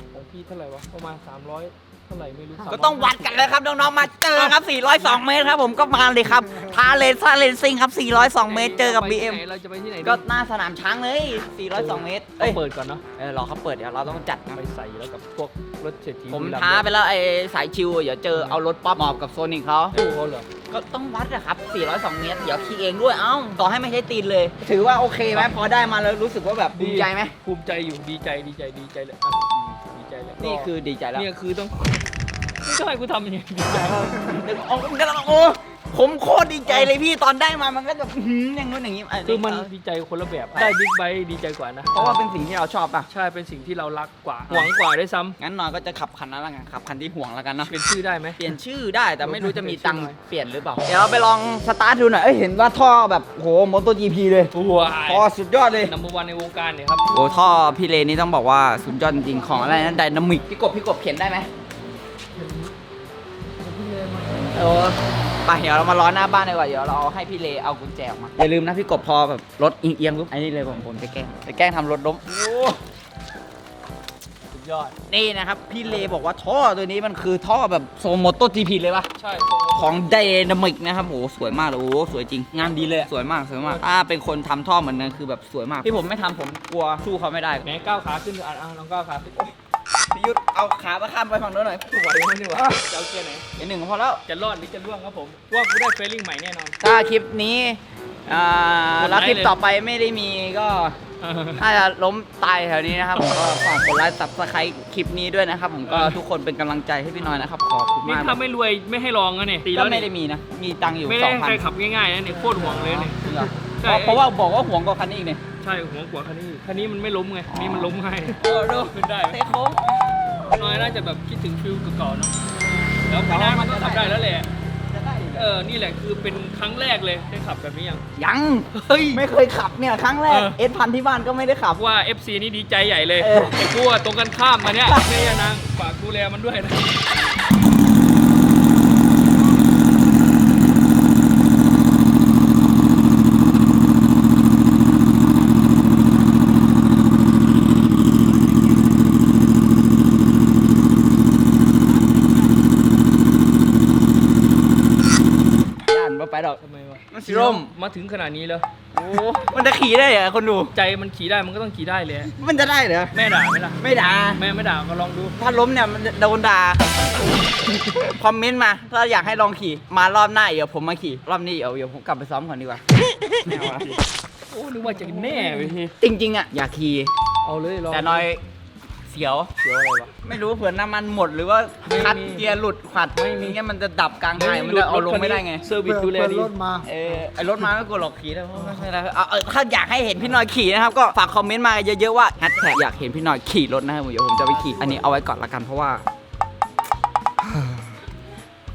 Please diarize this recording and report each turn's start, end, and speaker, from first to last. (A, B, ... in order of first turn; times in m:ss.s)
0:00.1-0:03.6 A
0:02.7-0:09.4 B
0:04.2-0:05.2 A
0:08.2-0:10.2 A
0:10.0-0:12.6 B
0:11.7-0:13.0 A
0:13.2-0:14.6 B
0:14.5-0:16.9 A
0:16.3-0:20.0 B
0:18.3-0:18.6 A
0:19.9-0:20.5 A
0:20.7-0:27.3 B
0:25.2-0:25.5 A
0:26.7-0:34.4 A
0:29.5-0:29.8 B
0:30.4-0:31.2 B
0:33.7-0:39.7 B
0:36.6-0:36.9 A
0:39.2-0:42.2 A
0:41.9-0:43.1 B
0:43.1-0:45.4 A
0:45.4-0:47.7 B
0:47.6-0:48.4 A
0:48.4-0:54.5 B
0:49.2-0:50.2 A
0:54.5-0:57.1 A
0:55.0-0:55.9 B
0:57.1-1:01.5 B
0:59.2-1:00.2 C
1:02.3-1:02.7 C
1:03.6-1:04.7 C
1:04.5-1:12.4 B
1:12.3-1:12.8 A
1:14.5-1:15.0 A
1:15.1-1:19.1 B
1:15.8-1:16.1 A
1:19.2-1:20.0 A
1:19.7-1:27.6 B
1:23.6-1:23.8 A
1:27.6-1:29.4 A
1:30.1-1:32.8 B
1:32.1-1:33.5 A
1:33.6-1:34.2 B
1:34.3-1:36.8 A
1:36.8-1:41.0 B
1:39.0-1:39.5 A
1:41.2-1:41.6 A
1:41.6-1:48.4 B
1:45.8-1:46.2 A
1:48.0-1:50.1 A
1:49.6-1:51.6 B
1:51.0-1:53.2 A
1:52.6-1:55.4 B
1:53.8-1:54.2 A
1:55.6-1:59.4 A
1:57.5-2:00.9 B
2:00.5-2:02.4 A
2:03.0-2:04.5 A
2:03.1-2:04.2 B
2:04.8-2:05.5 B
2:05.3-2:08.0 A
2:08.2-2:11.8 B
2:08.7-2:09.2 A
2:10.3-2:10.6 A
2:11.8-2:17.0 A
2:13.2-2:13.7 B
2:14.8-2:15.1 B
2:35.8-2:37.7 B
2:36.6-2:38.7 A
2:38.9-2:40.7 B
2:40.7-2:42.3 A
2:42.3-2:43.2 B
2:43.1-2:45.4 A
2:43.8-2:44.4 B
2:45.4-2:54.0 B
2:53.4-2:55.9 A
2:56.0-2:57.1 B
2:57.4-2:58.3 A
2:57.9-2:58.4 B
2:59.1-2:59.5 B
2:59.6-3:00.1 A
3:00.2-3:05.6 B
3:01.8-3:02.6 A
3:03.1-3:03.6 A
3:04.3-3:06.5 A
3:05.8-3:06.9 C
3:06.8-3:16.0 B
3:08.6-3:08.8 C
3:14.5-3:15.0 A
3:17.4-3:17.8 B